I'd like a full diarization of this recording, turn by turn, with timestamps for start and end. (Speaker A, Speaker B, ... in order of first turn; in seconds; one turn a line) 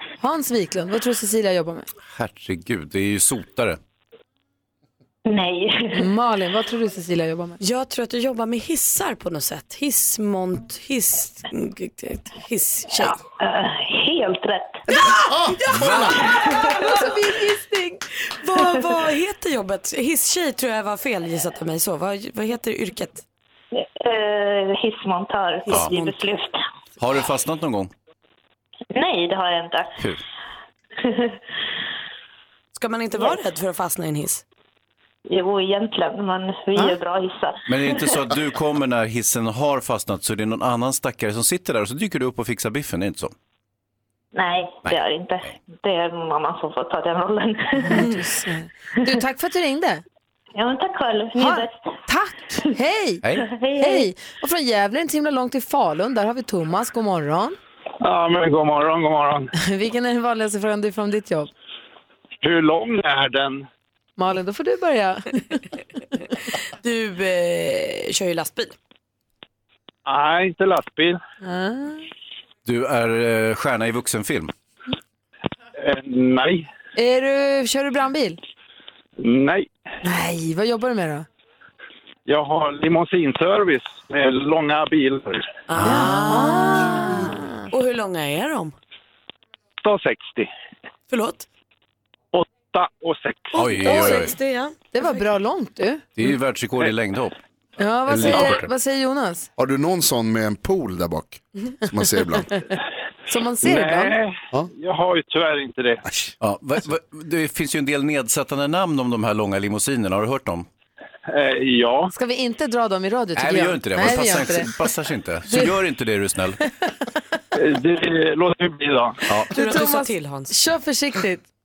Speaker A: 0.2-1.9
Speaker B: 2.1-3.8
Speaker C: 5.2-6.1
Speaker A: 5.9-7.6
Speaker D: 7.6-13.2
Speaker C: 13.4-14.8
Speaker A: 14.9-15.2
Speaker D: 15.0-17.0
Speaker C: 16.0-16.9
Speaker A: 16.7-18.0
Speaker D: 18.3-23.2
Speaker C: 23.7-26.6
Speaker D: 25.7-26.2
Speaker B: 27.0-27.9
Speaker C: 28.9-30.0
Speaker B: 30.0-30.2
Speaker C: 31.1-31.4
Speaker D: 32.7-34.4
Speaker C: 35.3-37.8
Speaker B: 37.7-43.3
Speaker C: 44.4-48.1
Speaker B: 44.8-45.5
Speaker A: 47.8-50.0
Speaker C: 50.5-51.8
Speaker A: 51.4-53.3
Speaker C: 53.4-54.1
Speaker A: 53.8-57.6
Speaker E: 58.1-59.5
Speaker A: 59.6-61.5
Speaker E: 62.4-63.6
Speaker A: 64.2-65.6
Speaker D: 66.8-68.7
Speaker E: 70.1-71.1
Speaker A: 71.4-72.0
Speaker B: 72.6-74.5
Speaker E: 75.8-76.7
Speaker A: 77.0-78.4
Speaker E: 79.2-79.7
Speaker A: 80.0-81.2
Speaker E: 82.3-85.4
Speaker D: 85.7-88.7
Speaker A: 85.8-87.7
Speaker B: 85.8-86.3
Speaker E: 89.8-90.5
Speaker D: 91.1-91.5
Speaker E: 92.4-93.5
Speaker D: 93.5-95.2
Speaker B: 93.5-94.4
Speaker A: 94.9-96.1
Speaker B: 96.2-97.4
Speaker A: 97.8-99.5
Speaker B: 98.1-98.7
Speaker F: 99.6-102.5
Speaker A: 103.3-104.2
Speaker E: 103.7-106.0
Speaker B: 106.4-110.7
Speaker E: 111.3-112.0
Speaker A: 112.1-114.7
Speaker B: 113.3-116.6
Speaker A: 115.5-115.8
Speaker E: 117.8-119.1
Speaker A: 119.5-121.4
Speaker D: 119.5-120.5